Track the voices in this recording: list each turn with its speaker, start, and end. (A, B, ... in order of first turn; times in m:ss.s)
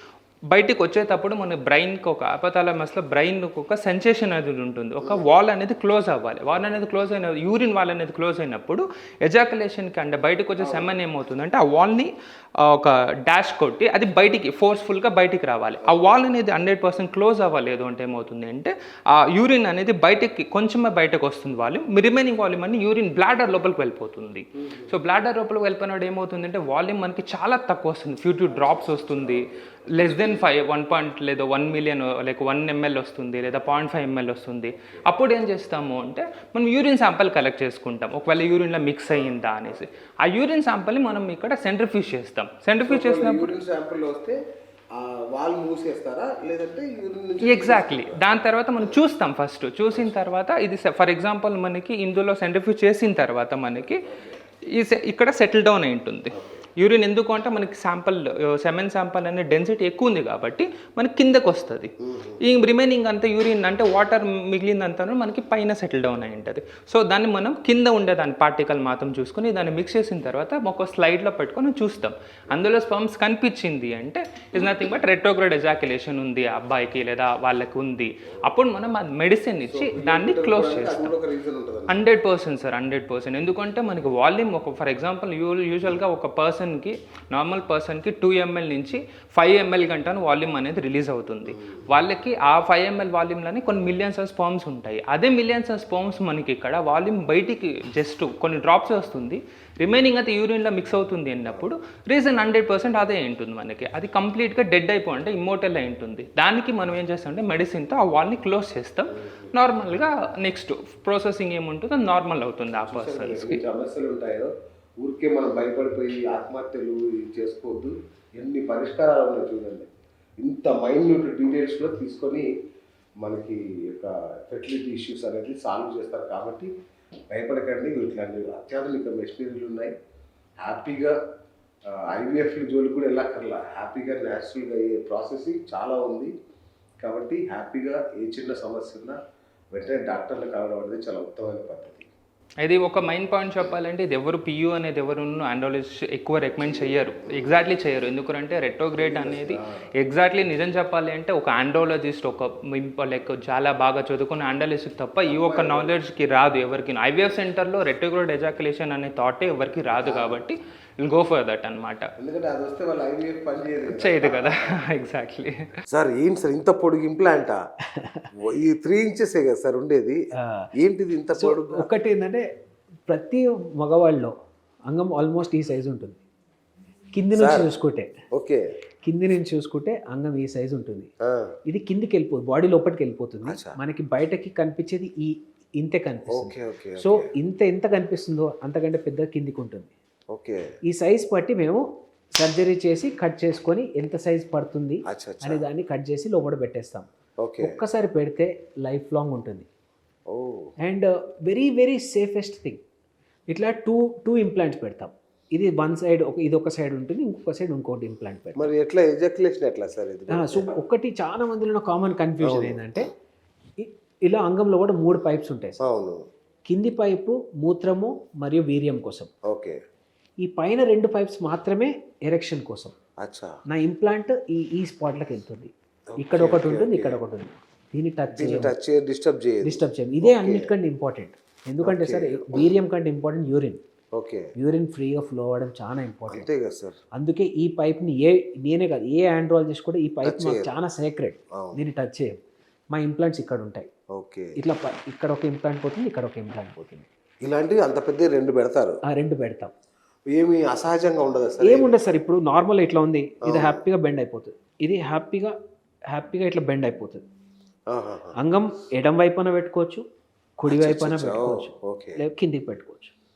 0:00.5-0:12.1 A
0:10.6-0:11.0 B
0:12.6-0:43.6 A
0:15.8-0:16.1 B
0:24.6-0:24.9 B
0:28.5-0:30.4 B
0:34.8-0:35.1 B
0:39.1-0:39.8 B
0:42.8-0:44.4 B
0:44.9-0:49.0 B
0:47.4-0:54.1 A
0:54.0-0:54.4 B
0:54.7-1:21.2 A
0:56.3-0:56.6 B
1:02.0-1:02.4 B
1:19.7-1:22.0 B
1:21.9-1:53.6 A
1:31.5-1:31.8 B
1:49.1-1:49.5 B
1:52.7-2:02.5 B
2:03.2-2:06.7 B
2:07.3-2:09.9 B
2:10.6-2:11.2 B
2:11.9-2:16.3 B
2:17.0-2:19.2 B
2:19.7-2:22.1 B
2:22.6-2:42.0 A
2:26.6-2:27.6 B
2:29.0-2:29.8 B
2:35.3-2:36.0 B
2:39.9-2:40.5 B
2:42.2-2:44.8 B
2:43.9-2:45.7 A
2:45.9-2:47.6 B
2:48.0-2:48.3 C
2:48.3-2:50.2 B
2:50.4-2:50.7 C
2:50.8-2:51.9 B
2:51.4-2:52.4 C
2:53.1-2:54.3 C
2:54.9-2:56.2 C
2:57.1-2:58.1 C
2:57.4-2:57.7 B
2:58.3-2:58.6 B
2:59.0-3:01.1 C
3:01.3-3:01.5 B
3:01.7-3:09.9 C
3:03.4-3:03.8 B
3:06.3-3:07.3 B
3:10.3-3:10.6 B
3:10.9-3:11.8 C
3:12.4-3:17.1 C
3:15.1-3:15.6 B
3:17.4-3:17.8 B
3:17.6-3:19.7 C
3:20.3-3:20.7 B
3:20.8-3:22.8 C
3:23.5-3:28.7 C
3:28.6-3:30.7 B
3:30.3-3:33.1 C
3:32.4-3:33.0 B
3:33.8-3:35.8 C
3:35.8-3:36.2 B
3:36.7-3:39.3 C
3:39.5-3:39.8 B
3:40.4-3:42.9 C
3:43.2-3:43.6 B
3:43.7-3:48.7 C
3:46.2-3:47.2 B
3:48.3-3:50.7 B
3:49.6-3:53.8 C
3:51.8-3:52.7 B
3:54.1-3:54.5 B
3:54.6-3:56.5 C
3:56.3-3:57.0 B
3:57.2-4:02.4 C
4:00.2-4:00.7 B
4:02.9-4:03.9 C
4:04.1-4:04.6 B
4:04.6-4:07.1 C
4:07.4-4:09.0 B
4:09.1-4:09.7 C
4:10.3-4:12.0 B
4:11.6-4:15.6 C
4:13.4-4:13.8 B
4:16.1-4:17.2 C
4:17.9-4:18.4 B
4:18.4-4:20.0 C
4:20.6-4:23.1 C
4:20.7-4:22.2 B